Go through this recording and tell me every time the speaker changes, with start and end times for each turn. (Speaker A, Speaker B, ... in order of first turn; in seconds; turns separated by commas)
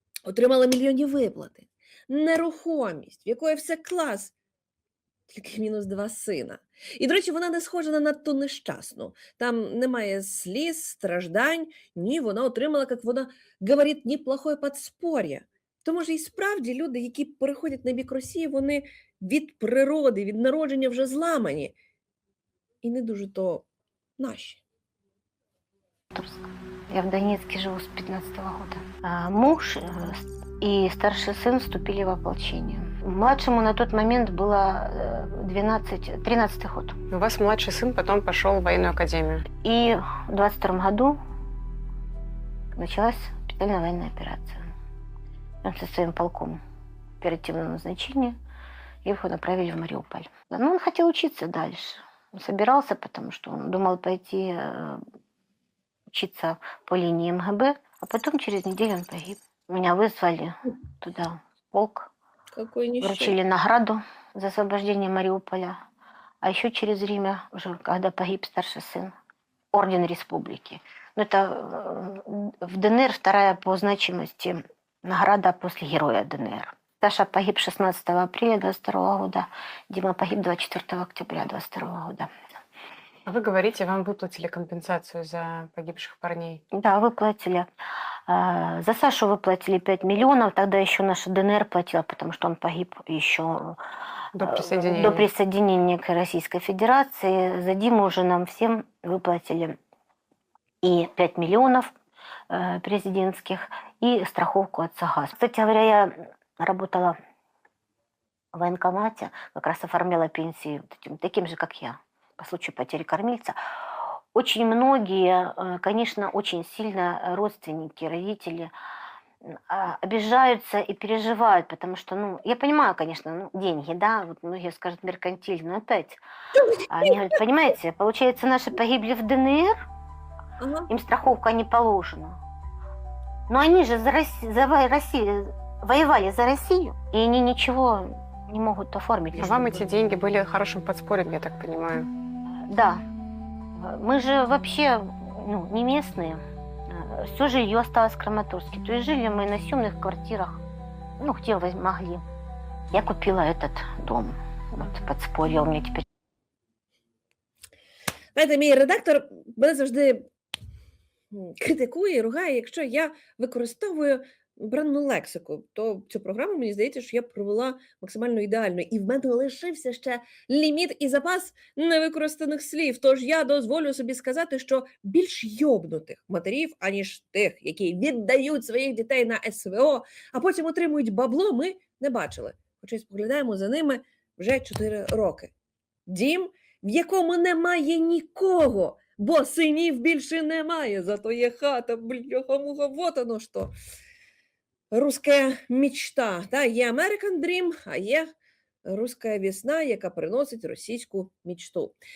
Speaker A: 0.3-4.3, Speaker A: 5.3-21.8, Speaker A: 22.8-23.6, Speaker A: 24.2-24.6, Speaker B: 26.1-36.9, Speaker C: 37.1-39.5, Speaker B: 39.6-41.2, Speaker B: 42.7-44.7, Speaker B: 45.6-46.6, Speaker B: 47.2-48.4, Speaker B: 49.0-55.0, Speaker B: 56.1-62.1, Speaker A: 62.6-63.4, Speaker B: 63.0-65.8, Speaker B: 66.4-69.1, Speaker B: 69.7-82.3, Speaker C: 83.3-86.6, Speaker B: 86.7-87.7, Speaker B: 88.3-93.8, Speaker C: 94.3-95.3, Speaker B: 94.4-99.8, Speaker B: 100.8-101.9, Speaker B: 102.5-107.2, Speaker B: 108.5-113.6, Speaker B: 114.3-118.7, Speaker B: 119.4-126.2, Speaker A: 126.6-127.1, Speaker B: 126.9-129.8, Speaker A: 130.6-130.9, Speaker B: 130.9-132.4, Speaker B: 133.5-139.9, Speaker C: 139.4-142.1, Speaker B: 142.7-143.0, Speaker B: 143.8-150.6, Speaker B: 151.2-152.2, Speaker B: 152.9-156.0, Speaker A: 158.3-160.3, Speaker A: 161.3-185.5, Speaker A: 186.1-193.7, Speaker A: 194.9-198.3, Speaker A: 198.9-201.9